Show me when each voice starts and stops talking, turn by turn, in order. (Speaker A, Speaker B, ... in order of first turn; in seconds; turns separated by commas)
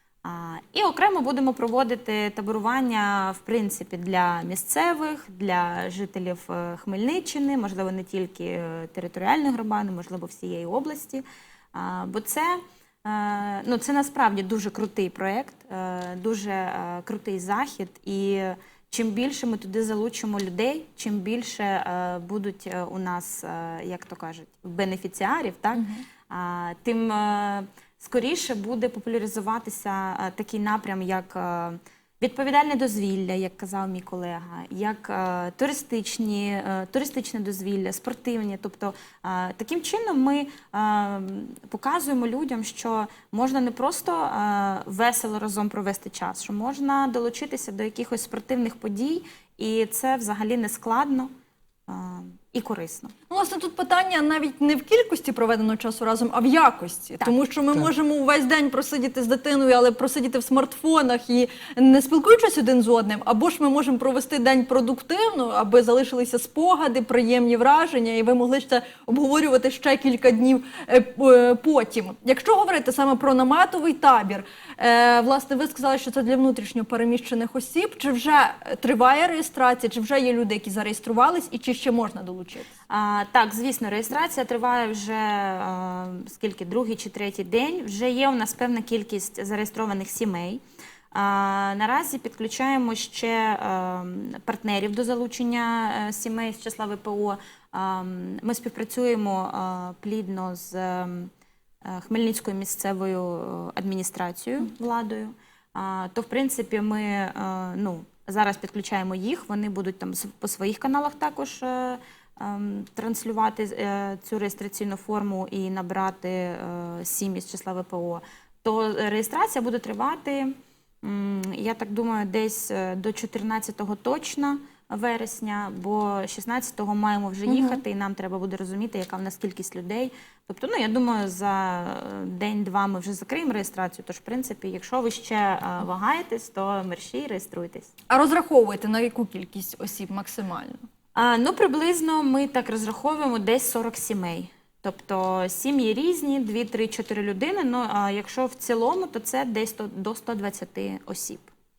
Speaker A: 0.2-51.3, Speaker B: 25.8-26.0, Speaker A: 51.9-53.1, Speaker B: 53.3-82.7, Speaker A: 82.9-90.6, Speaker A: 91.1-101.3, Speaker A: 101.8-137.9, Speaker B: 127.5-127.8, Speaker B: 138.1-140.8, Speaker A: 141.2-151.5